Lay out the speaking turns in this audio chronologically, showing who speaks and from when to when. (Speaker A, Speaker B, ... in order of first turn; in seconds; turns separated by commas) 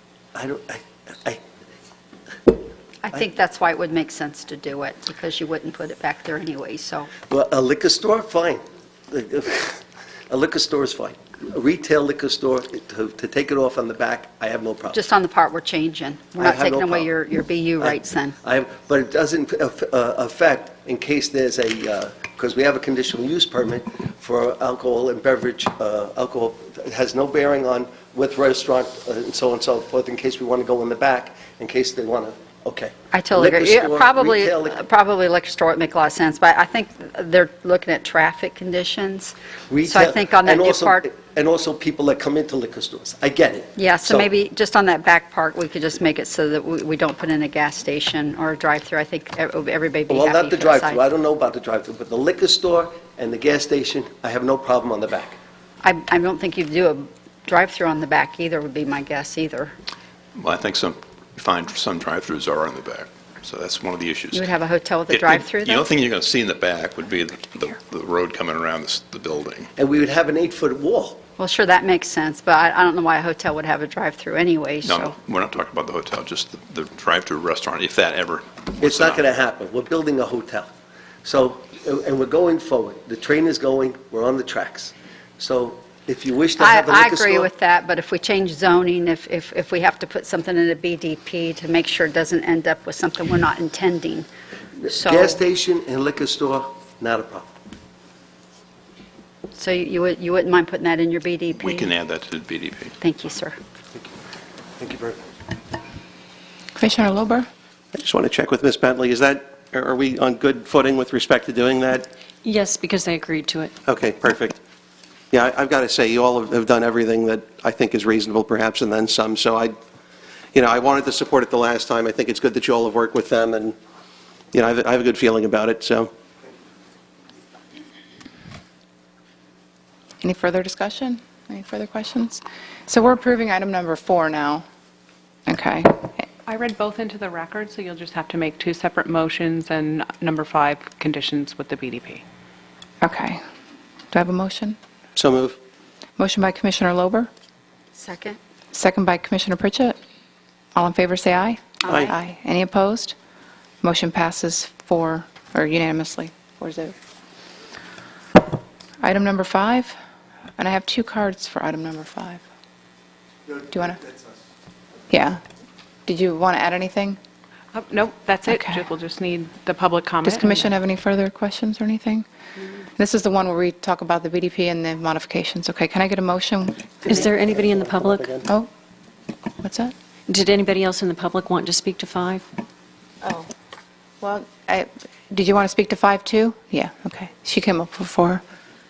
Speaker A: 0.3-1.4, Speaker B: 3.0-7.1, Speaker A: 7.2-15.0, Speaker B: 14.9-18.4, Speaker A: 16.4-17.1, Speaker A: 17.8-34.8, Speaker B: 33.1-41.0, Speaker A: 39.7-44.3, Speaker B: 43.8-51.0, Speaker A: 50.1-55.4, Speaker B: 55.8-59.7, Speaker C: 60.4-64.5, Speaker B: 64.3-65.9, Speaker C: 65.1-69.7, Speaker A: 69.8-71.2, Speaker B: 71.4-75.1, Speaker C: 74.8-79.2, Speaker A: 78.8-80.7, Speaker A: 81.2-87.5, Speaker B: 86.6-94.3, Speaker A: 94.8-97.5, Speaker B: 94.9-95.4, Speaker B: 99.5-101.9, Speaker C: 101.6-103.0, Speaker B: 103.0-103.5, Speaker A: 104.8-105.2, Speaker D: 106.8-107.5, Speaker E: 107.9-112.1, Speaker F: 112.4-113.7, Speaker E: 113.8-114.6, Speaker E: 115.3-119.7, Speaker E: 120.5-123.8, Speaker E: 124.5-126.1, Speaker D: 130.2-134.6, Speaker D: 135.5-136.2, Speaker G: 136.5-142.2, Speaker D: 143.0-143.4, Speaker D: 144.1-144.8, Speaker E: 145.2-145.6, Speaker D: 146.2-147.3, Speaker B: 147.9-148.4, Speaker D: 148.7-149.9, Speaker D: 150.7-153.1, Speaker B: 151.8-152.1, Speaker D: 153.8-156.9, Speaker D: 159.0-159.9, Speaker D: 160.6-162.4, Speaker A: 163.5-164.4, Speaker D: 163.7-164.0, Speaker D: 165.1-165.4, Speaker D: 166.1-167.2, Speaker G: 167.7-170.8, Speaker D: 168.5-168.8, Speaker D: 170.2-172.2, Speaker D: 173.0-177.2, Speaker F: 177.1-178.4, Speaker E: 177.3-178.4, Speaker D: 178.4-178.7, Speaker D: 179.6-179.9, Speaker F: 180.3-182.4, Speaker D: 184.2-188.4